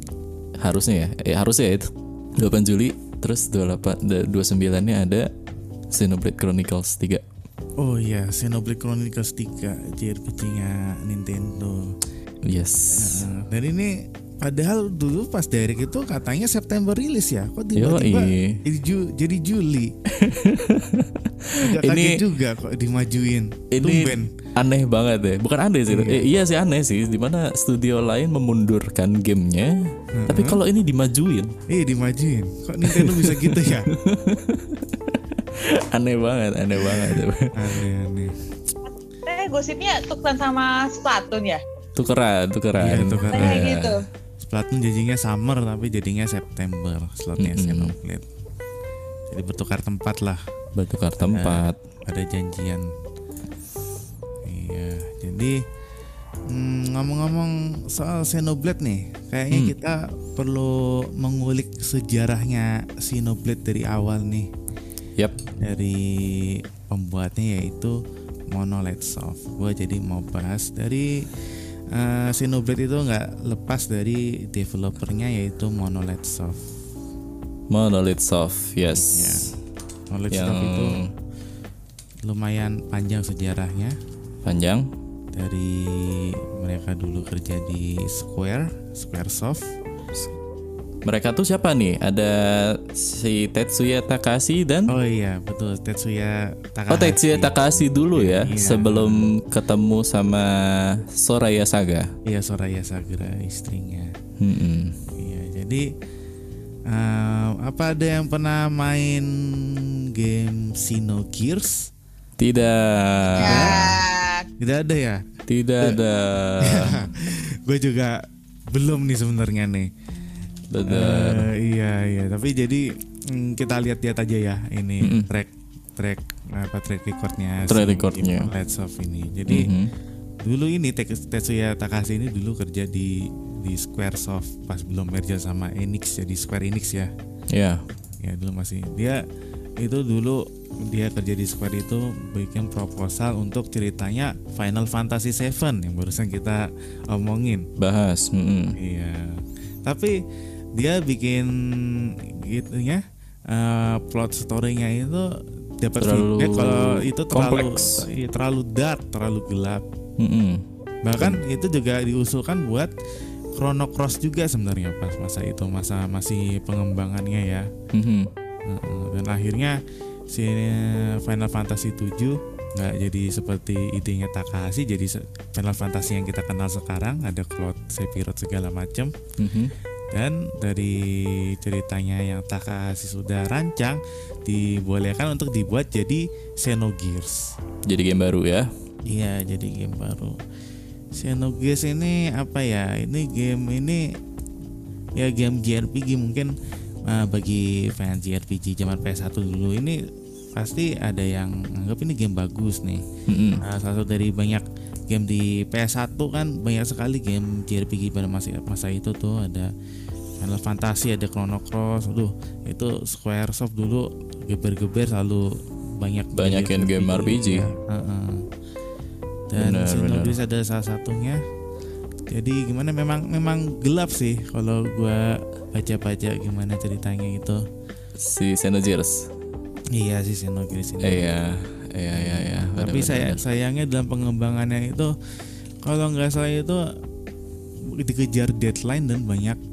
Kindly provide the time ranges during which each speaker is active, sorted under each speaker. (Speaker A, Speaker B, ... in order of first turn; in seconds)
Speaker A: 0.6-5.3, 5.9-7.2, 12.4-13.3, 17.7-18.6, 20.1-22.2, 23.7-29.7, 30.3-31.5, 32.8-37.5, 42.0-44.0, 47.4-48.0, 50.7-51.8, 77.7-79.5, 80.3-81.1, 84.4-84.9, 91.0-94.9, 96.9-102.1, 104.4-105.0, 112.4-113.9, 115.5-117.0, 120.7-121.5, 127.7-128.5, 129.5-129.9, 137.5-137.8, 147.8-148.8, 156.0-158.0, 160.2-160.6, 167.9-168.3, 179.4-179.7, 187.8-188.7, 203.3-203.6, 216.3-217.7, 219.6-220.3, 228.2-229.3, 231.0-233.4
Speaker B: 7.8-11.9, 12.9-19.9, 21.6-24.3, 25.9-26.2, 30.2-30.6, 31.7-33.9, 37.5-38.4, 42.8-43.8, 44.4-48.3, 49.3-50.4, 51.2-52.9, 54.4-55.6, 56.5-64.5, 65.6-68.0, 68.5-76.6, 78.9-79.5, 80.1-81.0, 82.2-84.0, 85.3-89.7, 94.9-99.3, 102.2-104.1, 105.2-105.8, 106.9-111.9, 113.4-114.0, 114.6-115.2, 116.6-119.9, 120.9-129.7, 130.4-137.1, 138.2-139.2, 139.8-147.7, 148.8-150.1, 150.8-155.2, 155.8-159.8, 161.0-162.9, 163.6-167.7, 168.7-169.8, 170.3-179.1, 180.1-187.5, 189.1-190.4, 191.2-194.0, 195.2-196.5, 197.1-200.0, 200.5-203.0, 203.6-209.7, 210.4-218.4, 219.5-221.4, 222.3-227.6, 229.9-231.2, 232.1-235.1, 235.8-236.8, 237.9-239.6
Speaker C: 38.9-41.6, 43.3-44.0, 113.3-114.5